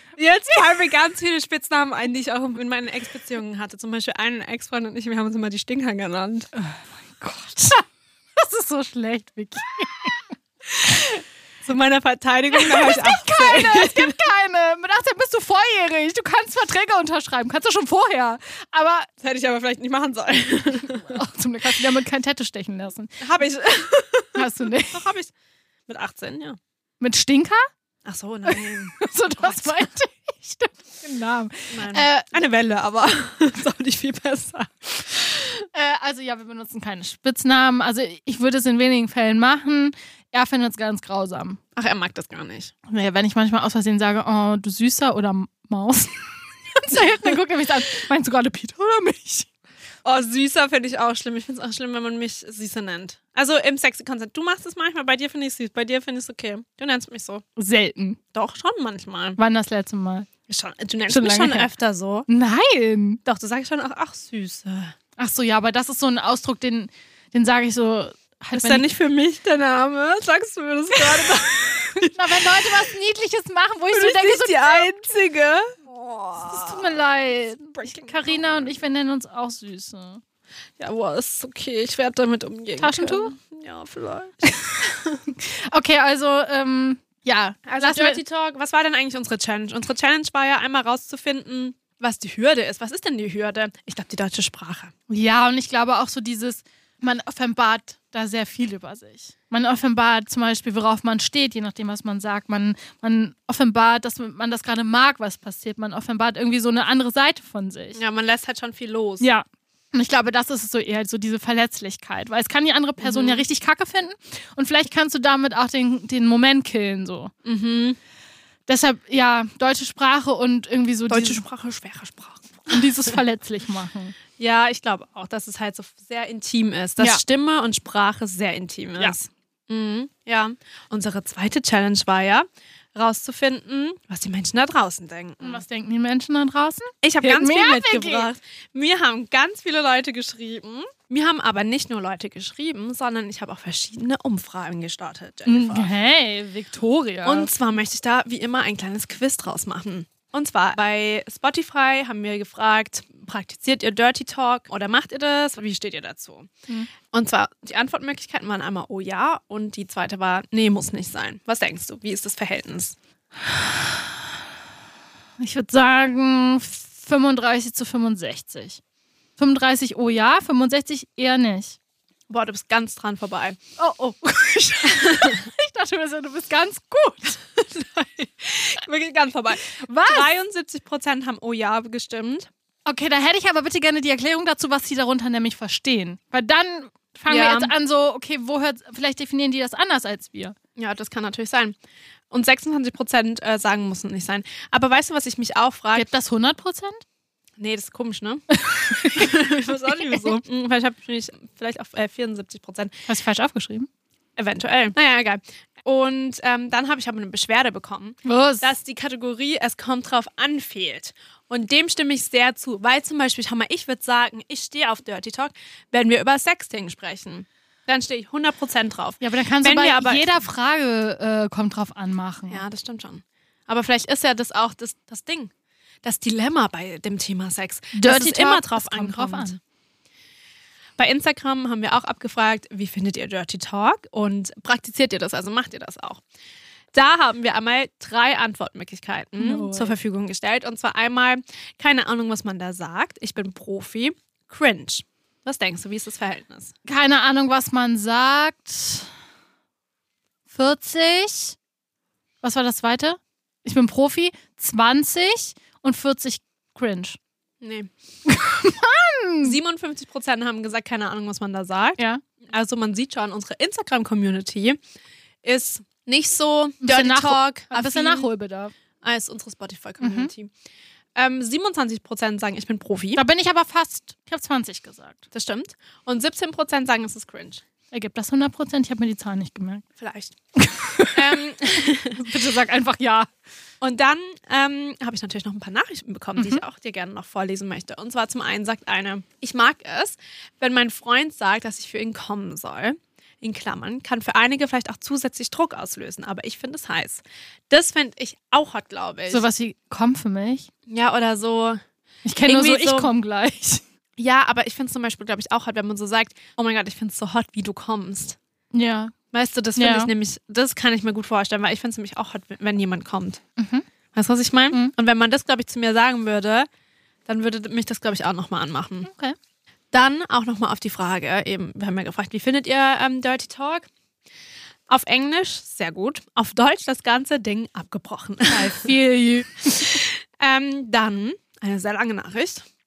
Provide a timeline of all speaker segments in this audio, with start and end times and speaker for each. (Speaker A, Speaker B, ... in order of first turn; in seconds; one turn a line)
Speaker A: 0.2-6.5
Speaker B: 6.5-10.2
Speaker A: 10.7-14.2
Speaker B: 12.5-19.1
Speaker A: 19.2-21.2
Speaker B: 20.8-23.2
Speaker A: 23.2-25.3
Speaker B: 24.4-25.1
Speaker A: 25.9-26.6
Speaker B: 27.0-27.7
Speaker A: 28.1-29.9
Speaker B: 28.5-32.3
Speaker A: 31.7-35.6
Speaker B: 35.7-41.6
Speaker A: 41.8-42.7
Speaker B: 42.9-49.5
Speaker A: 50.0-57.4
Speaker B: 57.6-58.2
Speaker A: 58.3-59.4
Speaker B: 59.4-60.3
Speaker A: 60.5-62.3
Speaker B: 61.1-61.7
Speaker B: 62.3-63.2
Speaker A: 63.2-64.9
Speaker B: 65.2-68.9
Speaker A: 68.5-72.7
Speaker B: 72.0-74.9
Speaker A: 73.9-77.0
Speaker B: 76.4-80.2
Speaker A: 77.8-78.7
Speaker A: 80.8-85.2
Speaker B: 82.8-83.4
Speaker B: 85.3-88.2
Speaker A: 87.7-94.9
Speaker B: 95.1-108.0
Speaker A: 108.0-109.3
Speaker B: 109.2-117.3
Speaker A: 113.0-113.4
Speaker A: 117.5-118.0
Speaker B: 118.7-121.4
Speaker A: 121.1-123.2
Speaker B: 122.7-124.2
Speaker A: 124.4-135.6
Speaker B: 135.4-138.3
Speaker A: 137.0-145.9
Speaker B: 145.5-147.5
Speaker A: 147.2-156.5
Speaker A: 157.1-163.0
Speaker B: 163.4-164.1
Speaker B: 165.4-168.8
Speaker B: 169.4-171.8
Speaker A: 172.3-173.6
Speaker B: 173.8-177.4
Speaker A: 174.9-175.4
Speaker A: 177.6-182.5
Speaker B: 179.7-180.3
Speaker B: 182.8-190.6
Speaker A: 187.3-187.7
Speaker A: 190.8-191.8
Speaker A: 192.3-196.1
Speaker B: 195.9-197.0
Speaker A: 197.6-198.4
Speaker B: 198.6-199.4
Speaker A: 199.0-202.9
Speaker B: 203.1-203.9
Speaker A: 204.4-220.2
Speaker B: 208.2-208.7
Speaker B: 219.2-222.6
Speaker A: 222.5-225.5
Speaker A: 226.0-229.6
Speaker B: 227.9-229.6
Speaker A: 231.0-236.2
Speaker A: 236.9-246.7
Speaker B: 239.4-240.0
Speaker B: 246.9-249.1
Speaker B: 250.5-251.6
Speaker B: 252.4-257.2
Speaker A: 257.6-257.9
Speaker B: 258.3-259.6
Speaker A: 259.4-264.8
Speaker A: 265.4-268.3
Speaker B: 266.8-268.7
Speaker A: 269.0-270.5
Speaker B: 270.0-270.3
Speaker A: 271.2-273.2
Speaker B: 273.2-275.3
Speaker A: 275.3-277.6
Speaker B: 277.9-279.9
Speaker A: 280.0-280.4
Speaker B: 280.6-281.4
Speaker A: 281.1-282.4
Speaker B: 282.1-283.3
Speaker A: 283.8-299.4
Speaker B: 286.4-286.6
Speaker B: 299.3-300.7
Speaker A: 300.9-301.8
Speaker B: 302.2-303.8
Speaker A: 302.5-303.1
Speaker A: 304.2-308.4
Speaker B: 308.7-309.1
Speaker A: 309.3-313.4
Speaker B: 309.8-310.1
Speaker B: 313.6-313.9
Speaker A: 314.1-316.7
Speaker A: 317.3-319.1
Speaker B: 319.1-319.4
Speaker A: 319.9-323.9
Speaker A: 324.9-328.9
Speaker B: 328.5-330.0
Speaker A: 329.7-332.7